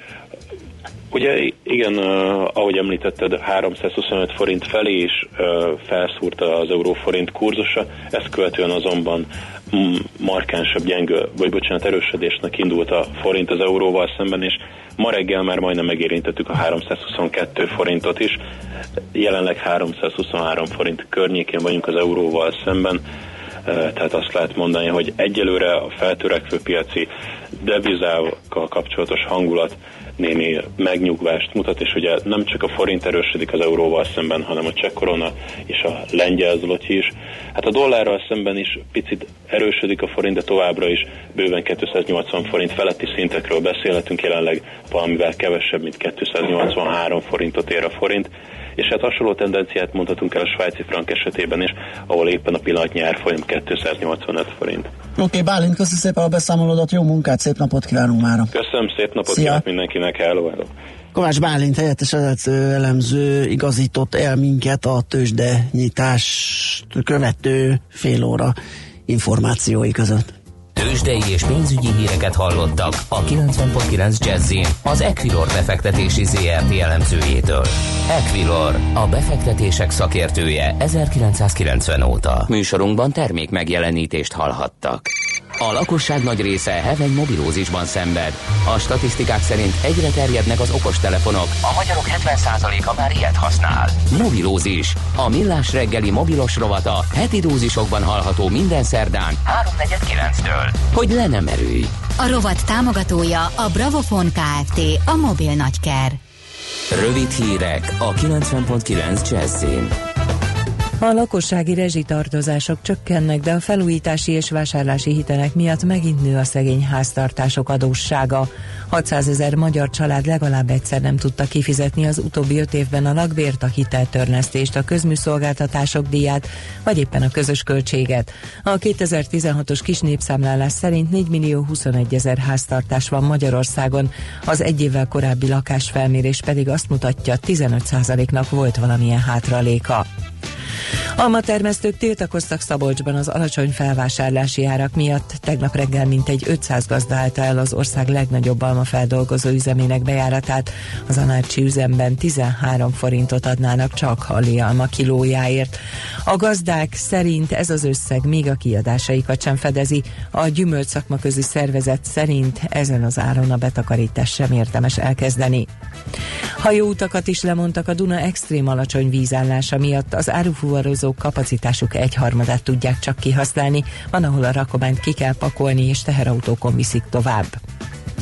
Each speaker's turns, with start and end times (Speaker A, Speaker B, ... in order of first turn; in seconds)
Speaker A: 1.1-18.4, 19.1-23.0, 23.6-54.9, 58.5-60.7
Speaker B: 55.1-58.5, 59.3-59.6, 61.1-68.5, 69.1-70.3
Speaker C: 70.8-102.0, 106.9-110.0
Speaker D: 102.2-106.2
Speaker E: 111.0-140.1, 141.2-155.8, 156.3-165.7, 166.6-177.6